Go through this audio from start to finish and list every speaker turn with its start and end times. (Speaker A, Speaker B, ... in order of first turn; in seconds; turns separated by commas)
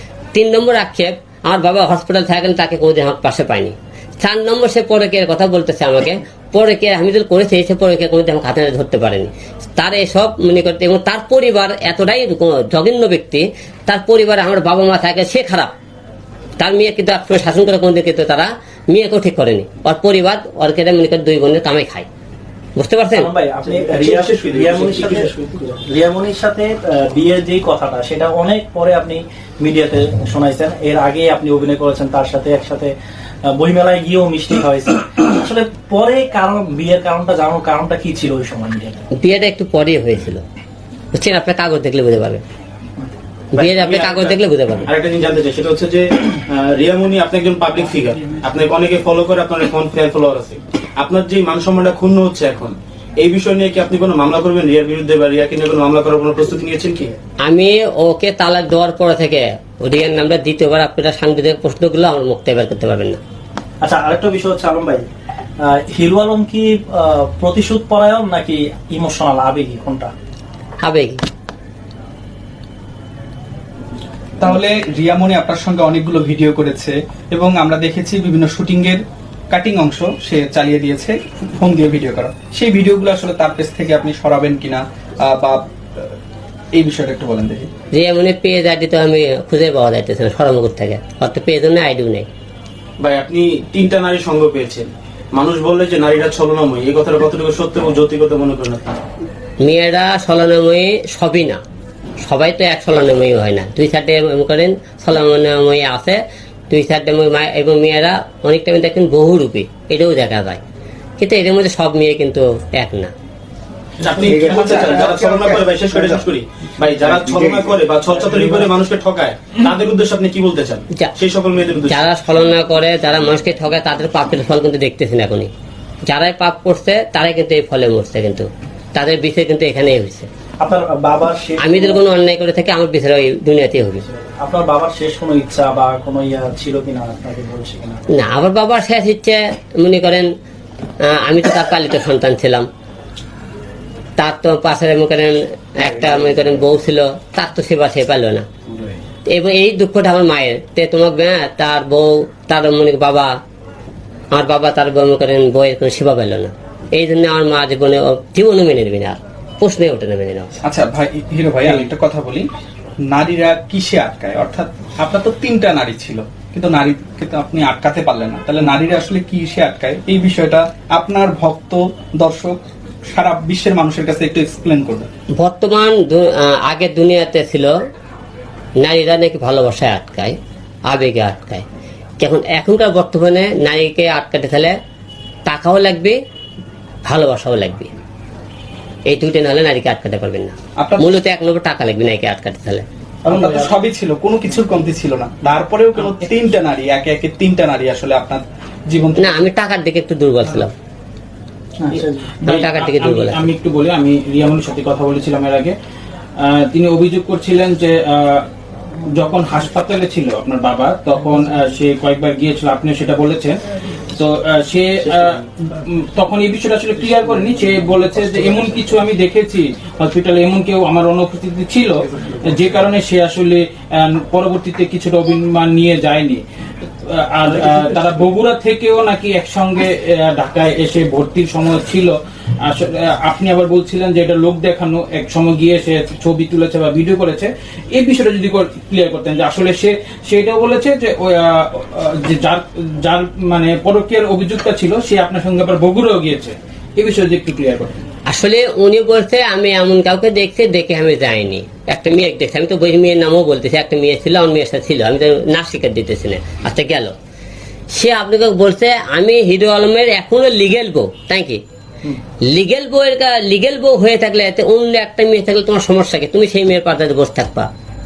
Speaker A: 0.3-15.7, Speaker A: 16.6-22.1, Speaker A: 22.8-23.3, Speaker B: 23.1-32.9, Speaker C: 23.9-25.3, Speaker B: 33.5-39.0, Speaker A: 39.1-40.4, Speaker A: 41.1-42.4, Speaker A: 43.5-44.9, Speaker C: 43.5-57.1, Speaker A: 57.4-63.2, Speaker B: 63.8-65.0, Speaker B: 65.6-70.1, Speaker A: 70.8-71.2, Speaker D: 74.4-86.1, Speaker D: 86.8-87.7, Speaker A: 87.9-92.3, Speaker C: 93.0-99.0, Speaker A: 99.6-101.6, Speaker A: 102.2-110.6, Speaker A: 111.2-113.1, Speaker C: 114.0-122.1, Speaker D: 114.5-115.2, Speaker A: 121.9-125.5, Speaker A: 126.1-130.3, Speaker B: 130.6-132.0, Speaker A: 131.6-134.0, Speaker B: 134.1-138.1, Speaker A: 138.1-140.3, Speaker A: 141.0-142.7, Speaker A: 144.2-148.4, Speaker A: 149.3-153.3, Speaker A: 154.3-160.5, Speaker D: 160.6-162.5, Speaker D: 163.1-172.6, Speaker D: 173.1-175.1, Speaker A: 175.4-177.7, Speaker A: 178.8-180.3, Speaker A: 180.9-181.6, Speaker A: 182.2-184.7, Speaker A: 185.5-186.2, Speaker A: 187.1-187.9, Speaker A: 189.1-192.8, Speaker D: 190.8-191.1, Speaker D: 193.3-199.4, Speaker E: 193.3-193.7, Speaker E: 196.0-196.2, Speaker A: 199.2-200.7, Speaker B: 201.8-202.3, Speaker E: 201.9-205.7, Speaker A: 202.4-203.5, Speaker E: 206.4-208.4, Speaker E: 209.1-213.6, Speaker E: 214.1-247.9, Speaker A: 248.3-257.1, Speaker A: 257.9-261.6, Speaker A: 262.5-267.7